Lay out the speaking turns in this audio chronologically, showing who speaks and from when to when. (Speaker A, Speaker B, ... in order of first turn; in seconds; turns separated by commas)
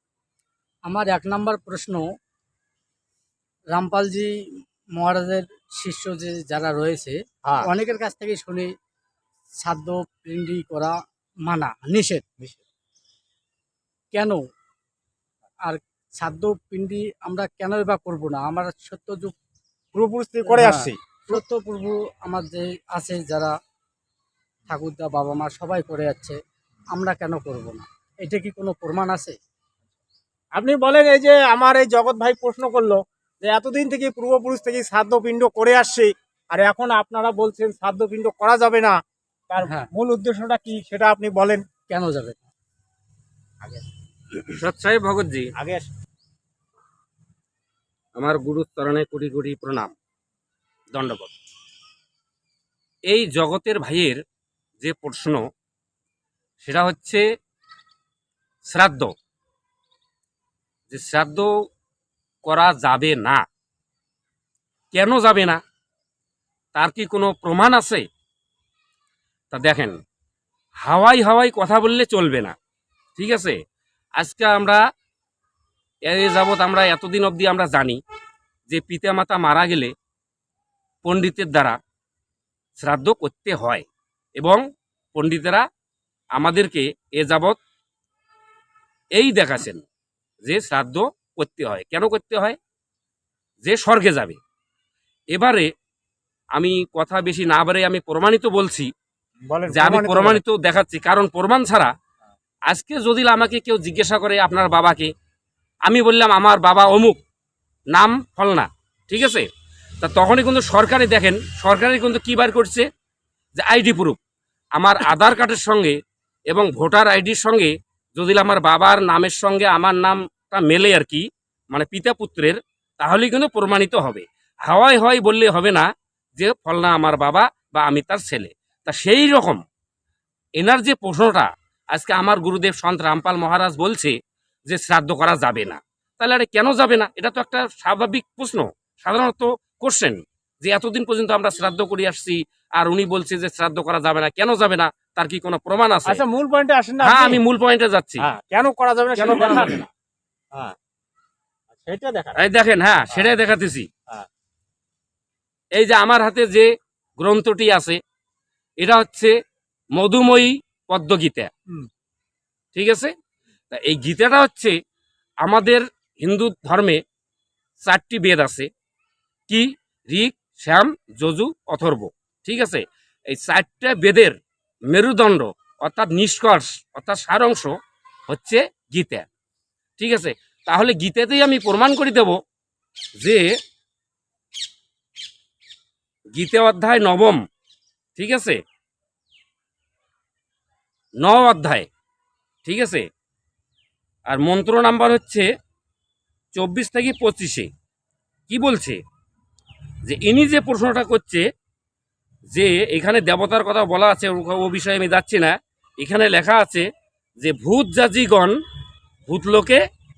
Speaker A: 0.9-2.0, Speaker A: 3.7-8.7, Speaker B: 7.4-7.7, Speaker A: 9.6-12.2, Speaker A: 14.1-14.4, Speaker A: 15.7-19.4, Speaker B: 19.9-21.4, Speaker A: 20.5-23.6, Speaker A: 24.7-26.4, Speaker A: 26.9-29.4, Speaker B: 30.6-41.6, Speaker A: 39.6-39.9, Speaker A: 41.9-42.5, Speaker C: 44.5-45.5, Speaker B: 45.6-45.9, Speaker C: 48.2-49.9, Speaker C: 50.9-51.3, Speaker C: 53.1-54.2, Speaker C: 54.8-55.5, Speaker C: 56.6-57.2, Speaker C: 58.7-59.1, Speaker C: 60.9-61.5, Speaker C: 62.5-63.5, Speaker C: 64.9-65.6, Speaker C: 66.8-68.0, Speaker C: 69.5-70.0, Speaker C: 70.8-72.5, Speaker C: 73.2-73.6, Speaker C: 74.2-74.8, Speaker C: 76.1-78.0, Speaker C: 78.7-79.9, Speaker C: 81.0-81.8, Speaker C: 82.8-83.8, Speaker C: 85.2-85.7, Speaker C: 86.3-87.6, Speaker C: 89.2-89.8, Speaker C: 90.5-92.6, Speaker C: 93.6-94.4, Speaker C: 95.3-95.7, Speaker C: 96.5-98.9, Speaker B: 99.5-100.4, Speaker C: 99.7-101.9, Speaker C: 102.7-105.1, Speaker C: 105.9-107.2, Speaker C: 107.9-109.5, Speaker C: 110.0-112.9, Speaker C: 113.5-114.2, Speaker C: 114.8-116.0, Speaker C: 116.5-129.6, Speaker C: 130.6-146.2, Speaker B: 146.1-147.4, Speaker C: 147.0-148.3, Speaker B: 148.2-149.9, Speaker C: 149.2-149.8, Speaker B: 151.7-152.4, Speaker C: 152.4-153.9, Speaker C: 155.8-158.0, Speaker C: 158.8-159.3, Speaker C: 159.9-161.5, Speaker C: 162.7-163.1, Speaker C: 163.7-164.8, Speaker C: 165.4-167.0, Speaker C: 167.8-168.7, Speaker C: 169.5-174.4, Speaker C: 174.9-177.8, Speaker C: 178.3-179.3, Speaker C: 180.0-182.4, Speaker C: 183.2-183.5, Speaker C: 186.3-187.4, Speaker C: 188.2-188.6, Speaker C: 191.2-191.9, Speaker C: 192.7-193.1, Speaker C: 194.3-195.5, Speaker C: 196.5-197.7, Speaker C: 198.5-199.0, Speaker C: 200.1-201.5, Speaker C: 202.5-206.9, Speaker C: 207.4-208.6, Speaker C: 209.3-209.8